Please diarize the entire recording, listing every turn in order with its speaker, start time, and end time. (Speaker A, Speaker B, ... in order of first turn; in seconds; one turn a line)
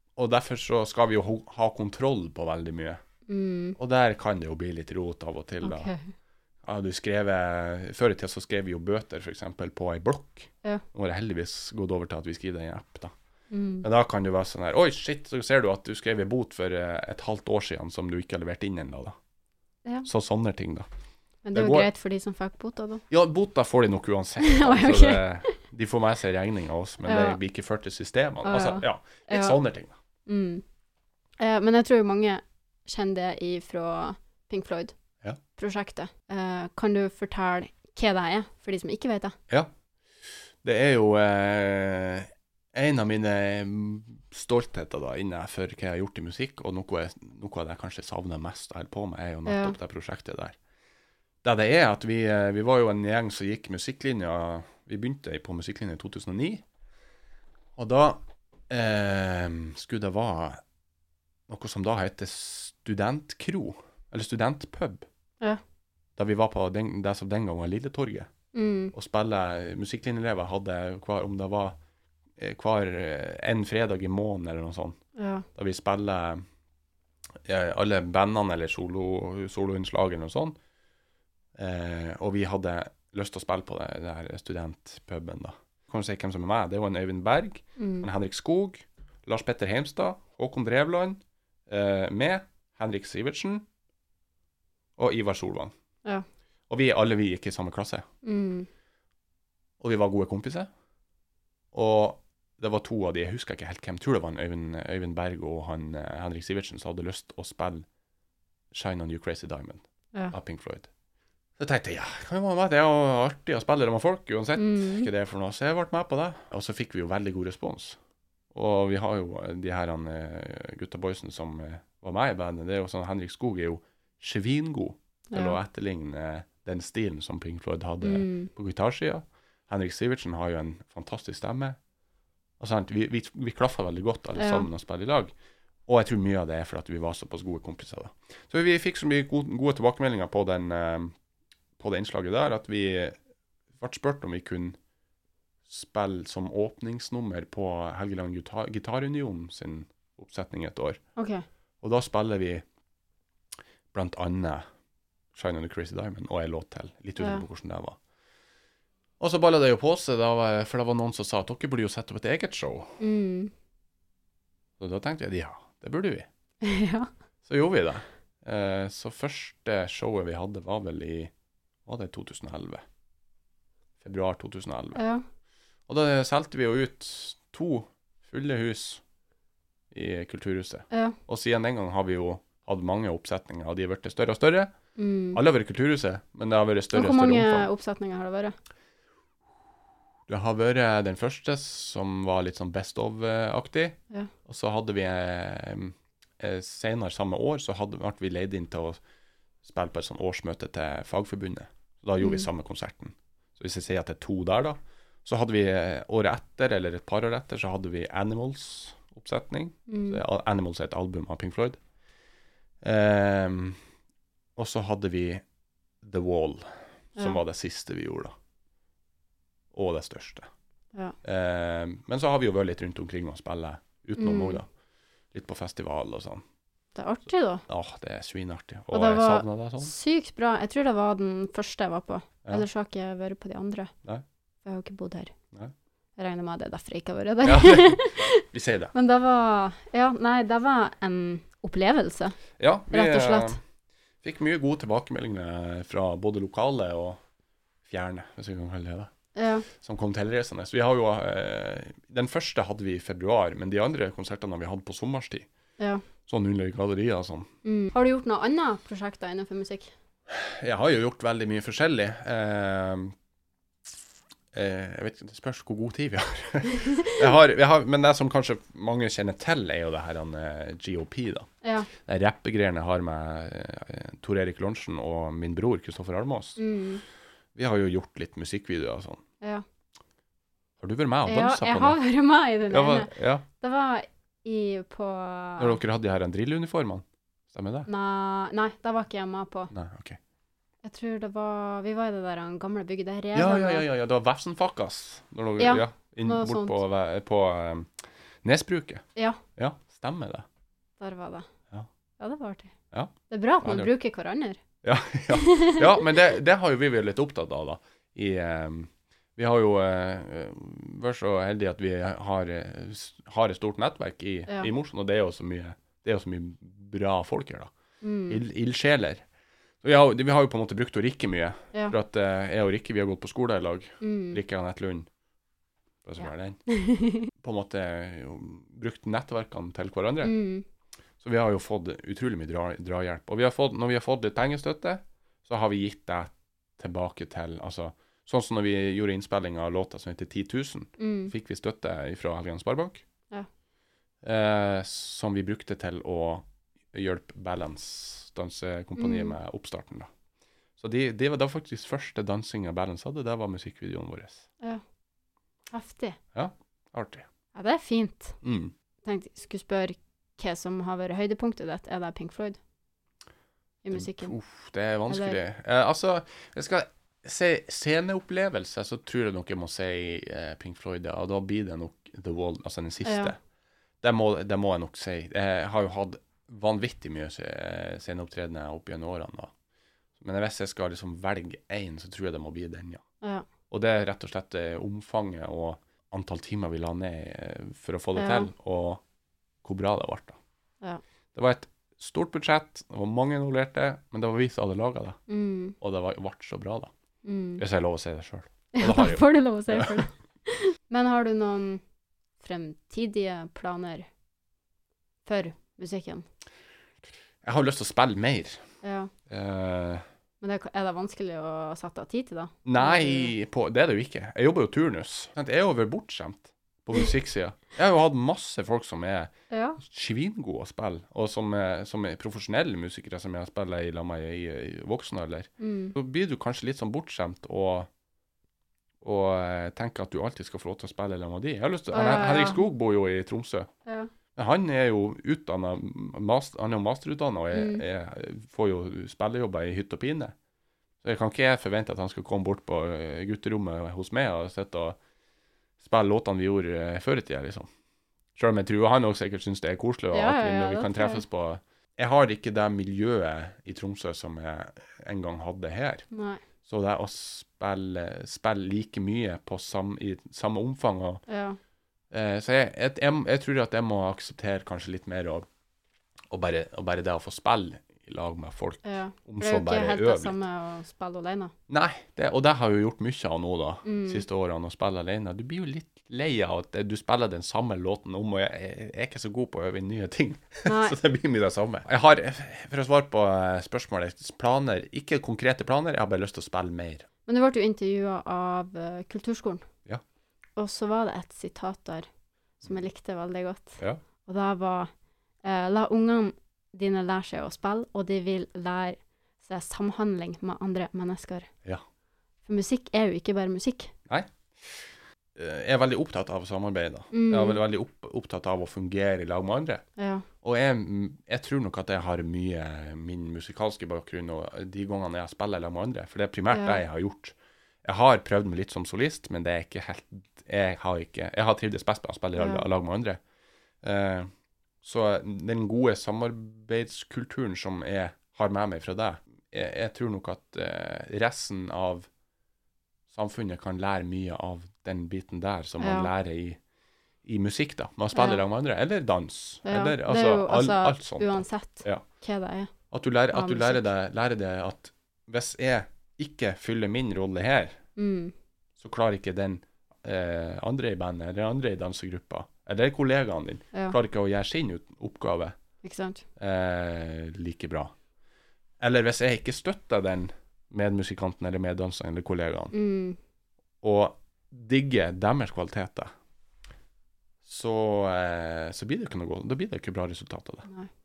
Speaker A: 0.2-3.0
Speaker B: 3.3-3.8
Speaker A: 3.8-5.9
Speaker B: 5.6-6.1
Speaker A: 6.6-13.1
Speaker B: 13.5-13.8
Speaker A: 13.8-19.2
Speaker A: 20.0-20.9
Speaker B: 21.4-23.0
Speaker A: 21.5-21.9
Speaker A: 23.1-29.9
Speaker B: 24.4-25.6
Speaker B: 27.0-27.4
Speaker B: 28.4-29.6
Speaker B: 30.3-30.6
Speaker B: 31.4-34.9
Speaker B: 35.5-39.4
Speaker A: 40.6-50.6
Speaker B: 49.5-49.8
Speaker A: 51.4-56.6
Speaker A: 57.8-60.6
Speaker A: 61.5-65.1
Speaker A: 66.2-68.3
Speaker B: 68.5-68.9
Speaker A: 68.9-71.8
Speaker A: 72.4-75.0
Speaker B: 75.2-75.5
Speaker A: 75.5-76.4
Speaker A: 77.4-80.5
Speaker A: 81.5-93.7
Speaker B: 87.8-88.1
Speaker A: 95.0-95.7
Speaker A: 96.7-98.0
Speaker B: 98.2-98.7
Speaker A: 99.8-100.7
Speaker A: 101.7-107.8
Speaker A: 108.7-110.9
Speaker A: 111.6-118.0
Speaker B: 114.5-115.1
Speaker A: 118.5-131.8
Speaker B: 125.3-125.6
Speaker B: 128.0-128.5
Speaker A: 132.6-135.3
Speaker B: 134.3-134.7
Speaker A: 135.9-141.1
Speaker A: 141.8-143.2
Speaker A: 143.8-144.8
Speaker A: 145.7-151.0
Speaker B: 151.2-151.4
Speaker A: 151.8-152.6
Speaker A: 153.9-154.6
Speaker A: 155.3-158.0
Speaker B: 157.2-157.4
Speaker A: 159.2-163.0
Speaker B: 163.0-163.5
Speaker A: 164.8-166.3
Speaker B: 166.6-167.1
Speaker A: 167.4-171.3
Speaker A: 171.8-172.8
Speaker A: 174.0-175.0
Speaker B: 174.9-175.2
Speaker A: 175.9-179.0
Speaker A: 179.9-184.7
Speaker B: 180.9-181.2
Speaker B: 185.0-185.4
Speaker A: 185.3-187.7
Speaker B: 186.9-188.5
Speaker A: 190.3-199.0
Speaker A: 199.6-211.8
Speaker B: 202.2-202.5
Speaker B: 209.9-210.2
Speaker A: 212.8-213.8
Speaker A: 214.6-215.4
Speaker A: 216.0-218.3
Speaker A: 219.7-220.5
Speaker A: 221.2-224.7
Speaker B: 224.2-224.6
Speaker A: 225.3-226.4
Speaker B: 226.9-227.6
Speaker A: 227.7-229.9
Speaker B: 228.9-233.9
Speaker B: 234.6-235.3
Speaker B: 236.2-242.4
Speaker A: 237.4-238.9
Speaker A: 242.6-243.6
Speaker B: 242.9-243.6
Speaker A: 244.2-247.2
Speaker A: 247.8-249.1
Speaker B: 249.3-249.7
Speaker A: 249.7-255.5
Speaker B: 255.8-256.0
Speaker A: 256.3-257.5
Speaker B: 257.6-259.9
Speaker A: 260.3-263.1
Speaker A: 264.5-276.6
Speaker B: 266.7-267.2
Speaker B: 271.6-271.9
Speaker B: 276.6-277.0
Speaker A: 277.5-279.2
Speaker A: 280.8-282.0
Speaker B: 281.2-285.8
Speaker A: 282.7-283.4
Speaker A: 285.6-287.9
Speaker B: 287.9-289.7
Speaker A: 289.7-290.2
Speaker B: 290.8-293.8
Speaker A: 293.3-299.0
Speaker B: 295.6-296.8
Speaker B: 299.1-299.4
Speaker A: 299.6-300.4
Speaker B: 301.0-301.5
Speaker B: 302.2-302.7
Speaker A: 302.9-303.9
Speaker B: 303.3-304.6
Speaker A: 304.8-317.7
Speaker B: 305.3-305.9
Speaker B: 318.0-318.4
Speaker A: 318.3-319.2
Speaker A: 319.8-325.1
Speaker B: 324.0-324.4
Speaker A: 326.0-326.6
Speaker B: 326.7-327.3
Speaker A: 327.3-330.3
Speaker B: 330.2-330.6
Speaker A: 331.2-343.0
Speaker B: 341.0-341.3
Speaker A: 344.2-350.1
Speaker B: 349.0-349.4
Speaker A: 350.8-354.4
Speaker B: 355.7-356.2
Speaker A: 356.3-357.2
Speaker B: 357.5-358.4
Speaker A: 358.4-358.7
Speaker B: 359.0-362.6
Speaker B: 363.8-364.3
Speaker A: 363.9-373.4
Speaker B: 365.1-365.4
Speaker B: 373.0-373.3
Speaker A: 374.0-379.5
Speaker A: 380.2-383.0
Speaker A: 383.7-389.0
Speaker B: 388.1-388.5
Speaker A: 389.6-390.4
Speaker A: 391.3-395.2
Speaker B: 395.3-395.8
Speaker A: 395.8-396.9
Speaker B: 397.2-397.6
Speaker A: 397.6-400.0
Speaker B: 398.7-401.8
Speaker B: 402.4-404.1
Speaker B: 405.2-406.2
Speaker A: 407.4-408.6
Speaker B: 408.8-409.1
Speaker A: 409.3-410.0
Speaker B: 410.4-413.3
Speaker A: 412.6-427.9
Speaker B: 419.5-419.8
Speaker B: 425.6-425.9
Speaker A: 429.0-433.7
Speaker B: 431.9-432.6
Speaker B: 433.9-434.1
Speaker A: 434.4-440.3
Speaker B: 437.5-437.8
Speaker A: 441.0-445.0
Speaker A: 445.8-447.7
Speaker A: 448.4-456.0
Speaker B: 450.1-451.2
Speaker B: 456.1-456.4
Speaker A: 456.6-461.2
Speaker B: 461.3-461.6
Speaker A: 462.1-465.5
Speaker A: 466.3-470.4
Speaker B: 468.8-471.5
Speaker A: 471.7-487.1
Speaker B: 473.8-474.2
Speaker B: 480.6-481.0
Speaker B: 487.2-489.6
Speaker B: 490.6-492.1
Speaker B: 492.6-494.9
Speaker B: 495.4-501.5
Speaker B: 502.4-503.9
Speaker A: 504.1-509.8
Speaker B: 507.1-507.6
Speaker B: 510.0-510.2
Speaker A: 510.4-523.2
Speaker B: 516.5-516.8
Speaker B: 522.4-522.6
Speaker A: 523.8-524.3
Speaker A: 524.8-532.1
Speaker A: 533.1-536.6
Speaker B: 535.8-536.1
Speaker A: 537.2-542.0
Speaker B: 538.1-538.4
Speaker B: 539.6-542.7
Speaker A: 542.9-547.8
Speaker B: 543.3-543.9
Speaker B: 548.0-548.3
Speaker A: 548.8-555.5
Speaker B: 555.8-556.2
Speaker A: 556.4-557.9
Speaker A: 558.8-562.7
Speaker B: 562.7-563.2
Speaker A: 563.8-566.1
Speaker A: 567.4-570.7